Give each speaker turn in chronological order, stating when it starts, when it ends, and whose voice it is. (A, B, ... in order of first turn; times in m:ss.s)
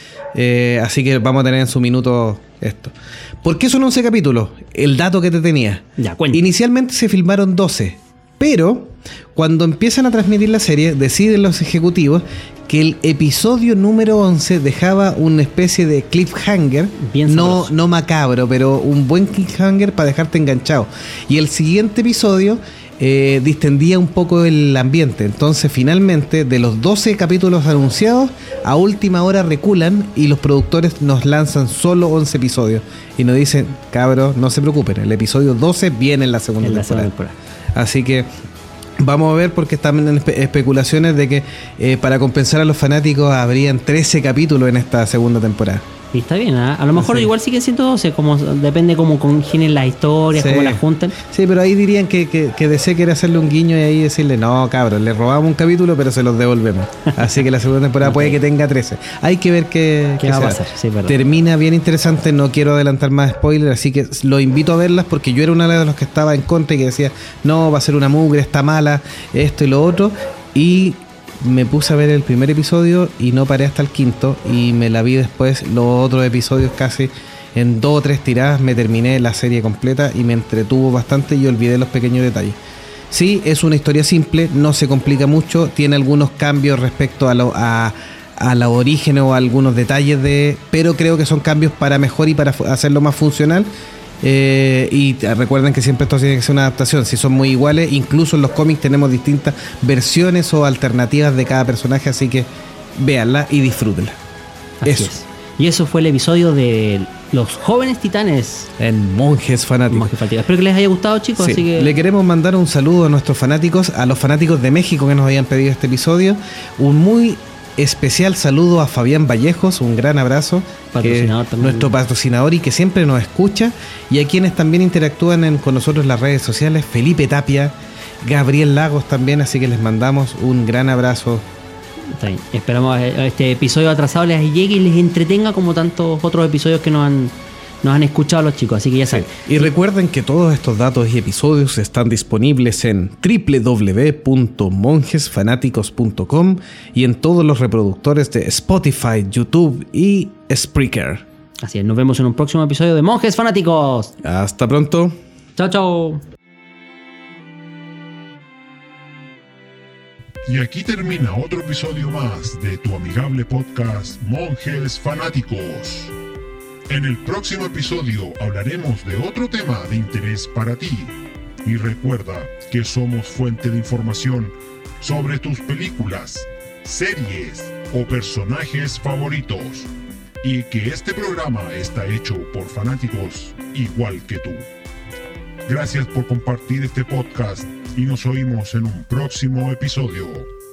0:00.3-0:37.1 A
0:06.0-0:06.5 B
0:17.0-0:17.7 B
0:36.6-0:37.4 B
0:37.7-0:38.3 A
0:39.0-0:45.8 A
0:46.1-0:51.2 B
0:47.0-0:47.3 A
0:50.3-1:22.6 A
0:58.0-0:58.4 B
1:00.2-1:01.2 B
1:23.1-1:33.7 A
1:34.2-1:44.2 A
1:44.8-1:48.7 B
1:44.8-1:45.1 A
1:48.8-1:50.1 A
1:49.9-1:52.0 B
1:51.4-2:11.5 A
2:00.9-2:01.9 B
2:12.2-2:19.5 B
2:19.1-2:31.2 A
2:31.6-2:34.1 B
2:34.2-2:35.2 A
2:35.6-2:36.2 B
2:40.4-2:46.1 C
2:46.9-2:59.9 C
3:00.4-3:04.6 C
3:05.7-3:10.5 C